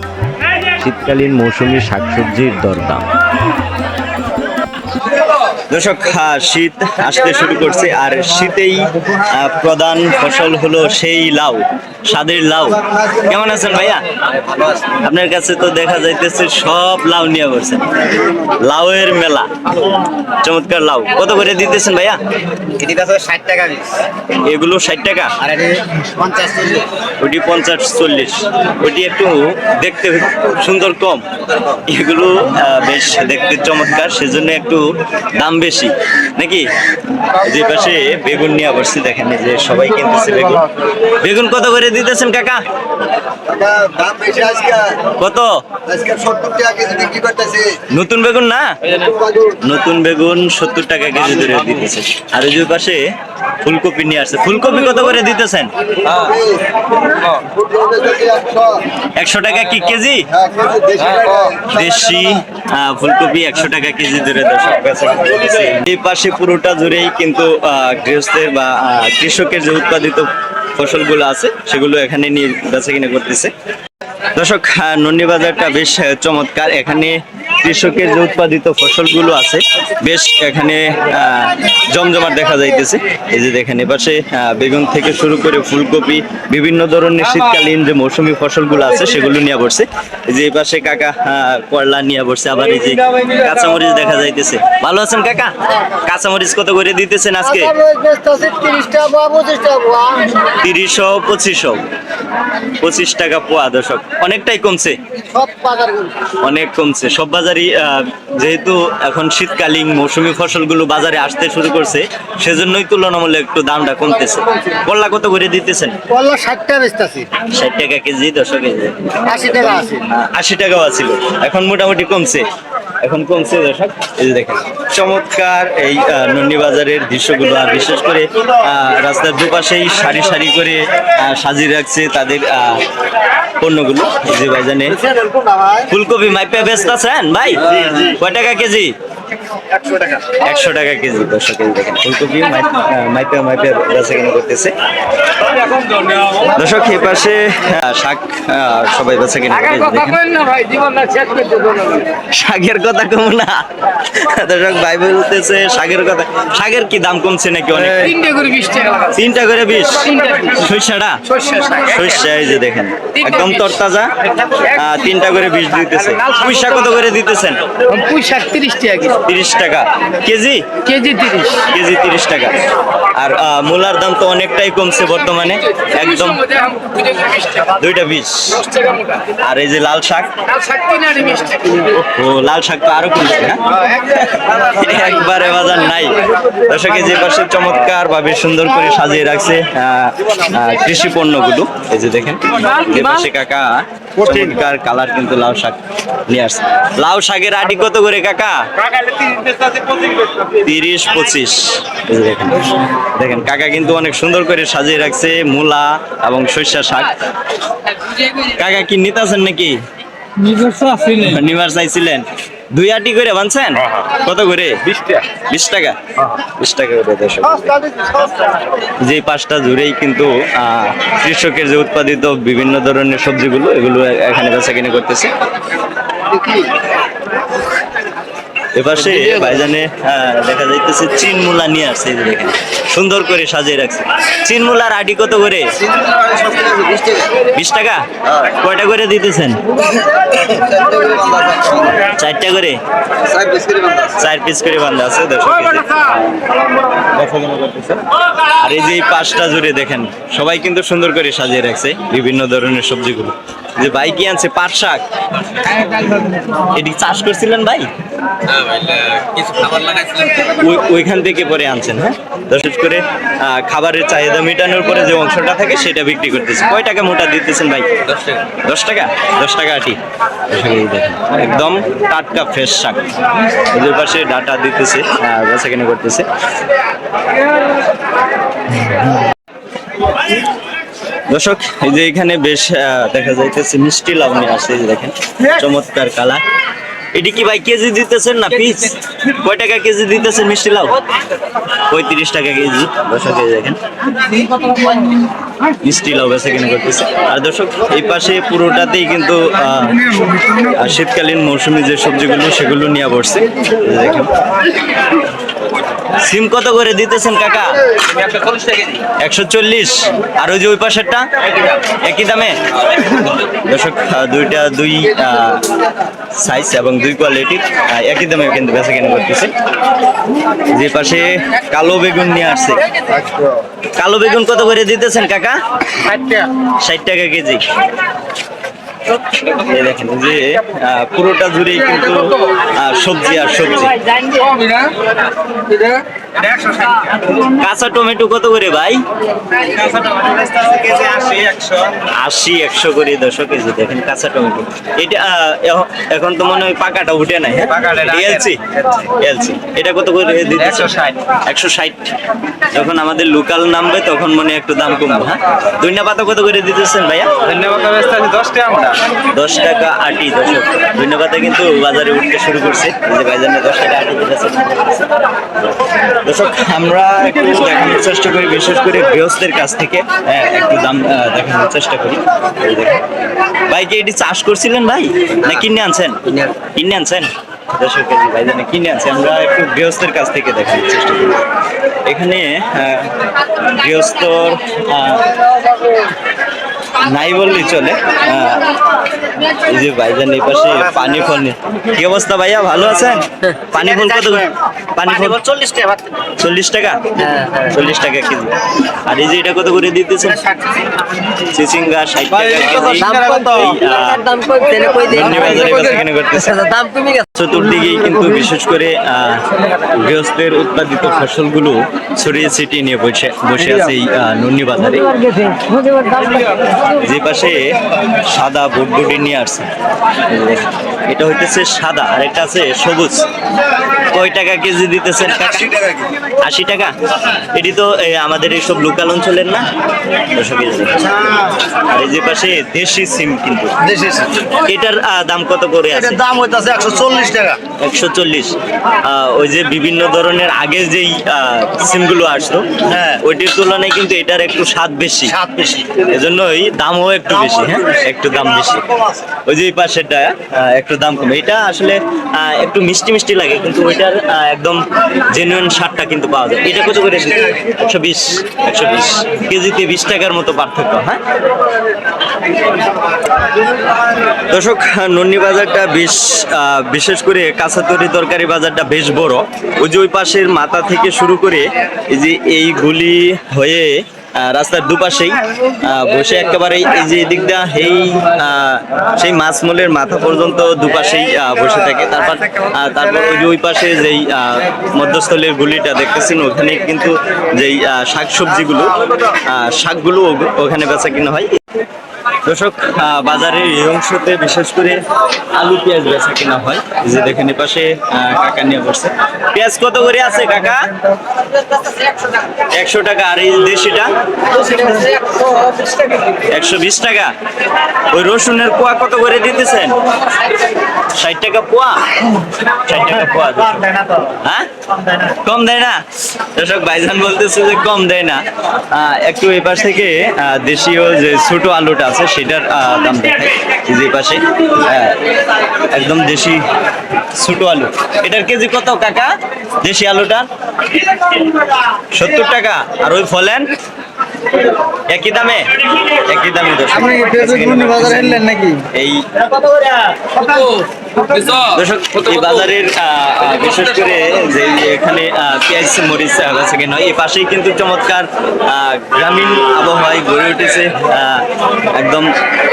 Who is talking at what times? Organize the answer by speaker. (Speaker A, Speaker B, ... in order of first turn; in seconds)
Speaker A: 0.8-3.1
Speaker B: 5.7-14.0, 14.9-17.9, 18.5-19.5, 20.4-22.2, 24.4-25.5, 27.2-34.9, 35.4-36.7, 37.4-42.6, 45.2-45.5, 47.9-49.0, 49.6-53.0, 53.6-55.7, 59.1-60.3, 61.6-73.5, 74.3-97.8, 100.4-101.8, 102.6-105.0, 106.4-116.0, 117.5-122.5, 123.0-132.8, 133.6-135.0, 135.7-138.9, 140.3-144.7, 146.5-150.5, 152.0-158.3, 159.0-167.7, 169.1-170.8, 171.5-172.6, 173.1-176.7, 177.5-180.4, 181.9-198.6, 200.4-207.2, 208.2-209.8, 210.9-217.9, 219.0-225.3, 228.8-235.7, 237.5-239.7, 242.0-242.8, 244.2-246.3, 247.1-248.0, 248.6-255.0, 255.7-257.9, 260.2-270.0, 270.5-273.1, 273.7-276.3, 281.3-286.4, 287.1-291.0, 291.9-293.8, 295.8-304.3, 306.2-307.8, 309.0-315.7, 316.4-319.5, 320.7-322.9, 324.0-327.6, 329.5-334.1, 337.4-339.0, 341.9-352.1, 352.7-357.5, 359.3-365.1, 366.2-373.0, 373.7-381.4, 382.1-383.1, 383.7-385.3, 387.0-388.7, 389.5-395.6, 396.3-400.5, 401.4-404.3, 405.0-406.6, 407.4-415.2, 416.9-417.7, 418.2-419.7, 420.3-423.3, 424.1-429.7, 430.3-433.8, 434.6-436.3, 437.8-445.4, 446.0-461.2, 464.5-491.6, 492.4-495.0, 495.5-500.9, 502.7-504.1, 506.5-507.3, 508.1-510.0, 511.1-512.1, 512.9-516.0, 516.5-525.2, 525.9-526.6, 527.3-529.3, 529.8-530.5, 532.1-533.7, 535.1-539.6, 541.4-552.3
Speaker C: 22.8-23.9, 25.5-26.8, 43.5-45.0, 45.9-47.8, 49.2-49.5, 56.1-56.6, 57.5-58.8, 60.4-61.6, 97.7-100.3, 105.3-106.1, 116.1-117.3, 236.0-237.3, 240.5-242.0, 243.3-244.1, 433.9-434.3, 436.2-437.6, 445.4-445.9, 537.2-538.8
Speaker D: 150.4-152.0, 158.3-159.0, 161.4-161.8, 168.0-169.1, 171.0-171.5, 176.5-177.4, 180.6-181.7, 258.5-260.0, 308.2-309.0, 334.4-334.9, 335.7-336.0, 336.6-336.9, 339.9-341.8, 357.5-359.0, 403.2-405.2, 406.6-407.2, 415.3-416.6, 504.7-506.2, 540.5-540.8